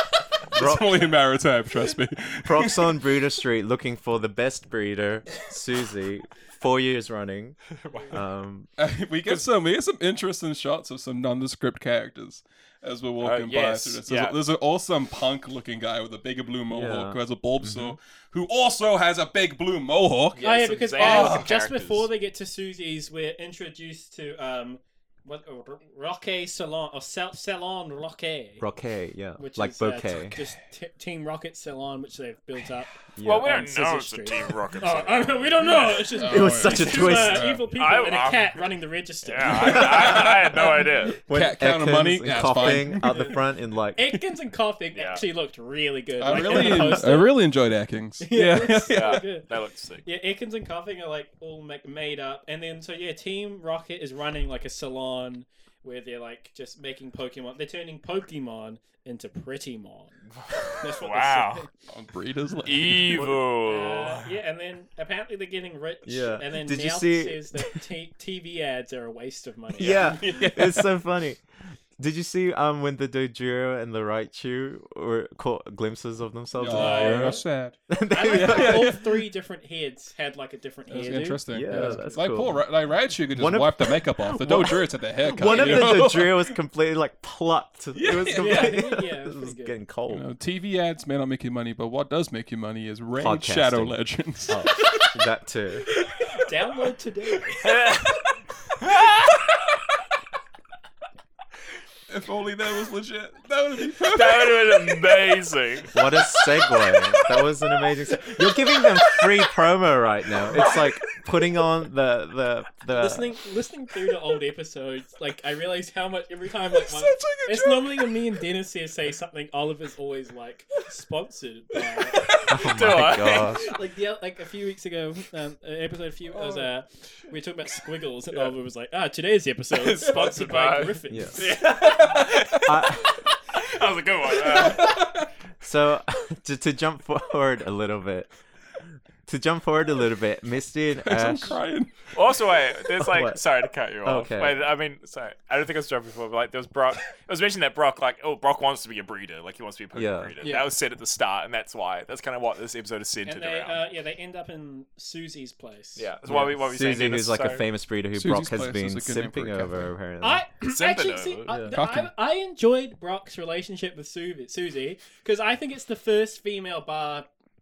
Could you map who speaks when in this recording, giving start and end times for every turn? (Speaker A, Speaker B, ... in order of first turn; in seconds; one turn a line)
Speaker A: 0.5-1.1
Speaker B: 0.5-3.0
Speaker A: 2.4-8.7
Speaker C: 7.8-8.2
Speaker B: 8.8-20.4
Speaker C: 13.2-14.4
Speaker A: 16.7-18.0
Speaker C: 20.4-22.1
Speaker D: 20.4-28.6
Speaker B: 21.0-21.5
Speaker A: 28.6-30.4
Speaker D: 29.4-41.2
Speaker A: 33.2-33.5
Speaker C: 33.2-36.2
Speaker B: 35.8-37.7
Speaker A: 36.3-37.5
Speaker C: 37.7-38.6
Speaker C: 39.2-41.2
Speaker B: 39.7-40.3
Speaker A: 41.3-44.2
Speaker B: 41.3-43.2
Speaker D: 42.7-47.4
Speaker C: 44.9-45.2
Speaker B: 46.2-49.3
Speaker A: 46.3-47.0
Speaker D: 48.2-49.5
Speaker C: 48.9-50.0
Speaker D: 50.0-61.7
Speaker C: 60.4-61.6
Speaker B: 61.9-63.3
Speaker C: 62.6-64.2
Speaker A: 63.1-63.4
Speaker D: 63.6-70.6
Speaker A: 66.1-67.8
Speaker A: 69.8-71.4
Speaker C: 69.8-70.2
Speaker B: 70.4-70.9
Speaker A: 72.0-79.0
Speaker B: 76.6-79.1
Speaker D: 76.7-77.4
Speaker D: 78.1-82.2
Speaker B: 80.9-86.6
Speaker A: 81.5-82.6
Speaker A: 83.3-90.3
Speaker B: 88.0-88.8
Speaker D: 88.3-89.8
Speaker B: 90.1-95.0
Speaker A: 93.2-95.9
Speaker D: 96.3-97.8
Speaker C: 97.6-98.3
Speaker C: 98.8-99.4
Speaker B: 102.1-105.2
Speaker C: 103.9-106.0
Speaker A: 105.9-113.3
Speaker B: 110.5-110.8
Speaker D: 112.9-122.3
Speaker B: 116.7-118.4
Speaker C: 122.2-123.6
Speaker A: 122.5-123.7
Speaker D: 123.0-131.6
Speaker B: 126.3-126.7
Speaker C: 129.7-135.2
Speaker A: 131.1-131.6
Speaker B: 131.6-133.0
Speaker A: 132.6-133.3
Speaker B: 134.3-135.3
Speaker A: 135.6-138.3
Speaker A: 139.3-141.6
Speaker B: 141.0-142.1
Speaker C: 142.1-153.8
Speaker A: 143.0-143.4
Speaker A: 144.0-144.7
Speaker A: 149.9-150.3
Speaker D: 150.4-150.7
Speaker D: 153.2-156.1
Speaker C: 156.0-157.6
Speaker A: 156.3-160.4
Speaker B: 158.1-159.9
Speaker D: 160.2-167.3
Speaker C: 160.6-161.6
Speaker A: 161.5-161.8
Speaker B: 161.7-162.1